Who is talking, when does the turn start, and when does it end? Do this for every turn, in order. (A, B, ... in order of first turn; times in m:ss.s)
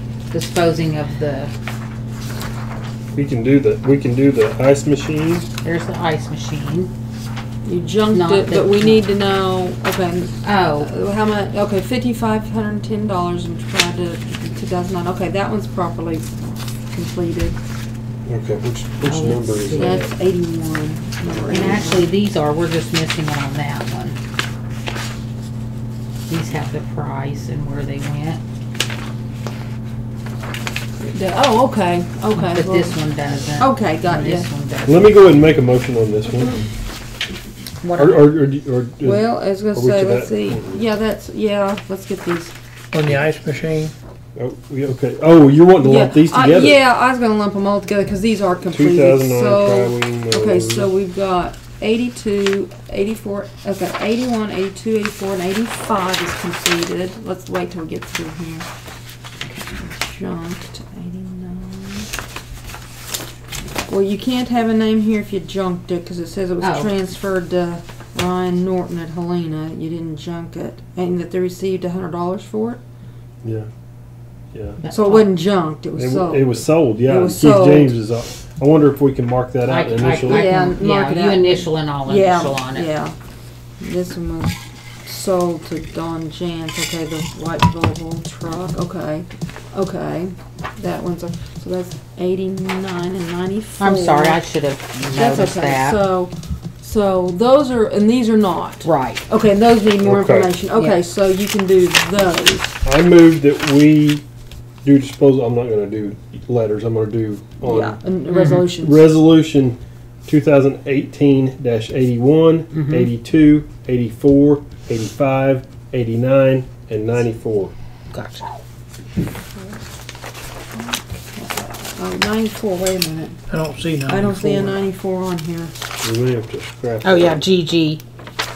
0:00.3-0:01.5 A
0:03.1-0:05.5 B
0:05.6-0:06.9 A
0:07.6-0:17.6 C
0:08.1-0:09.0 A
0:10.4-0:10.9 A
0:18.2-0:20.1 B
0:19.0-0:20.0 A
0:19.8-0:22.1 C
0:21.5-0:24.2 A
0:26.3-0:28.4 A
0:31.0-0:33.0 C
0:32.3-0:35.1 A
0:33.6-0:34.5 C
0:34.8-0:36.6 B
0:37.8-0:38.3 A
0:38.0-0:40.8 B
0:39.0-0:42.5 C
0:42.9-0:43.9 D
0:44.4-0:46.8 B
0:45.8-0:58.7 C
0:48.7-0:50.9 B
0:59.5-1:02.1 C
1:03.9-1:12.8 C
1:06.6-1:06.9 A
1:14.5-1:14.8 B
1:14.8-1:15.3 A
1:14.9-1:17.9 C
1:16.0-1:20.5 B
1:19.6-1:22.9 A
1:20.2-1:23.1 C
1:23.8-1:34.4 C
1:33.8-1:36.0 A
1:35.0-1:42.7 C
1:38.8-1:39.2 A
1:40.0-1:40.5 B
1:40.7-1:41.0 A
1:42.8-1:44.2 B
1:44.8-1:48.0 B
1:47.6-1:49.0 C
1:48.3-1:48.7 A
1:48.7-1:57.7 B
1:52.7-1:53.1 A
1:58.1-1:58.4 A
2:00.7-2:03.4 C
2:03.5-2:04.8 D
2:04.1-2:05.7 C
2:06.0-2:07.4 B
2:07.0-2:08.0 A